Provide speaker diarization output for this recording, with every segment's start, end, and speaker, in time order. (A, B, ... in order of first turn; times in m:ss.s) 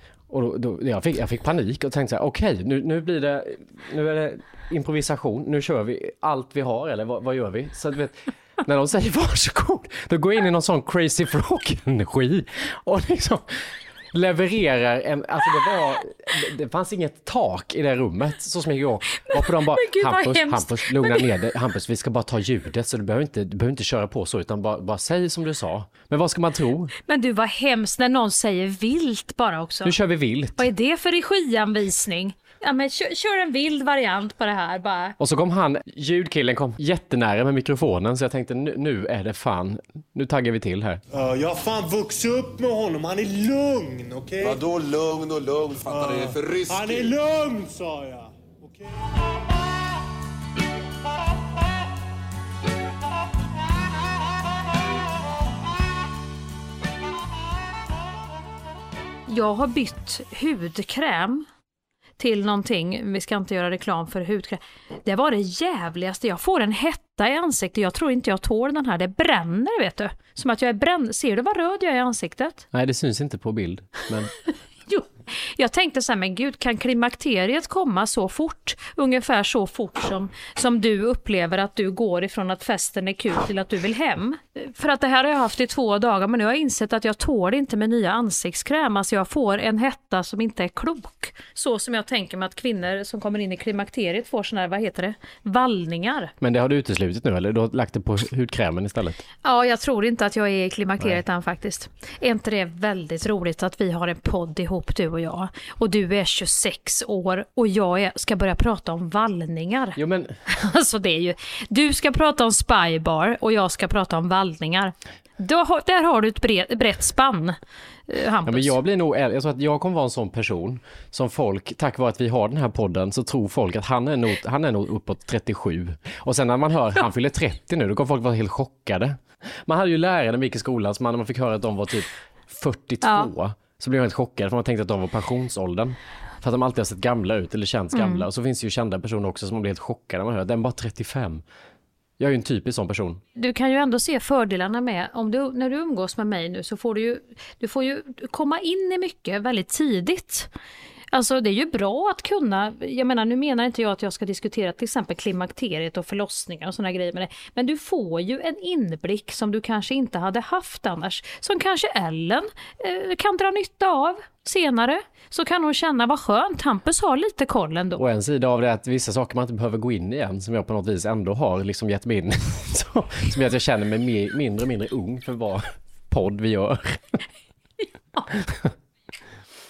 0:00.3-0:26.9 A
0:19.1-0:21.3 B
0:27.1-0:30.0 B
0:29.8-0:30.7 A
0:30.6-0:35.2 B
0:35.2-0:41.0 A
0:41.1-0:44.6 C
0:44.4-0:47.0 D
0:45.9-0:49.0 C
0:59.3-1:01.4 B
1:02.2-1:12.6 B
1:12.7-1:14.3 A
1:14.9-1:36.3 B
1:36.4-1:39.2 A
1:39.4-1:57.6 B
1:50.0-1:50.4 A
1:58.1-1:58.8 B
1:58.4-2:21.4 A
2:13.0-2:13.3 B
2:17.9-2:18.2 B
2:22.2-2:23.2 A
2:23.4-2:30.5 B
2:31.1-2:48.0 B
2:48.0-2:57.0 A